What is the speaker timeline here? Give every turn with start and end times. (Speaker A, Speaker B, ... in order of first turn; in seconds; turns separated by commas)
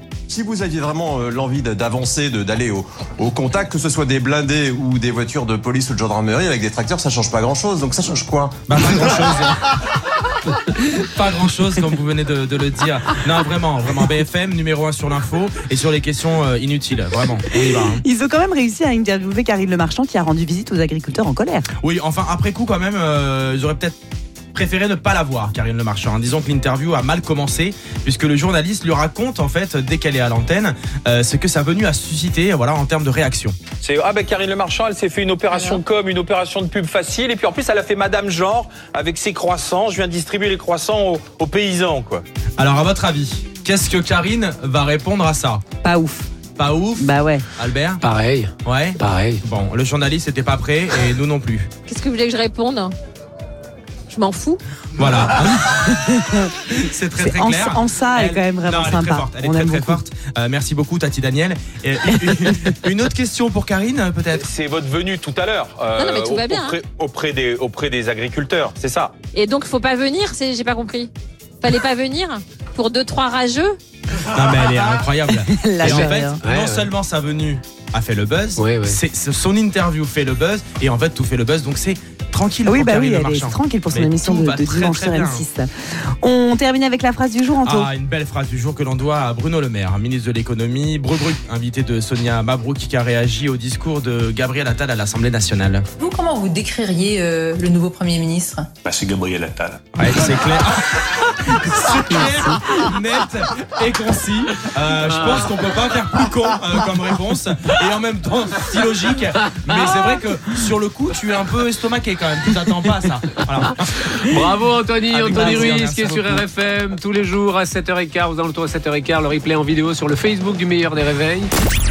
Speaker A: 0.3-9.3, Speaker B: 8.7-9.8, Speaker B: 10.5-18.0, Speaker C: 17.6-21.7, Speaker B: 21.8-24.0, Speaker B: 24.5-33.6, Speaker D: 33.8-42.2, Speaker B: 42.6-45.6, Speaker C: 45.8-46.3, Speaker B: 46.6-48.0, Speaker C: 47.0-47.5, Speaker E: 48.2-49.4, Speaker B: 48.6-51.7, Speaker F: 51.9-52.9, Speaker F: 54.1-54.6, Speaker B: 55.0-64.5, Speaker C: 57.2-60.0, Speaker D: 64.4-69.1, Speaker F: 66.0-66.8, Speaker F: 69.3-71.1, Speaker F: 71.6-73.8, Speaker B: 74.2-85.5, Speaker C: 75.3-76.4, Speaker E: 75.9-76.9, Speaker E: 78.6-79.0, Speaker C: 82.7-85.7, Speaker C: 86.2-87.9, Speaker B: 87.6-95.9, Speaker G: 96.0-98.7, Speaker D: 98.8-100.3, Speaker B: 100.0-114.5, Speaker E: 105.1-105.3, Speaker E: 114.1-121.5, Speaker B: 115.1-116.4, Speaker C: 115.3-115.8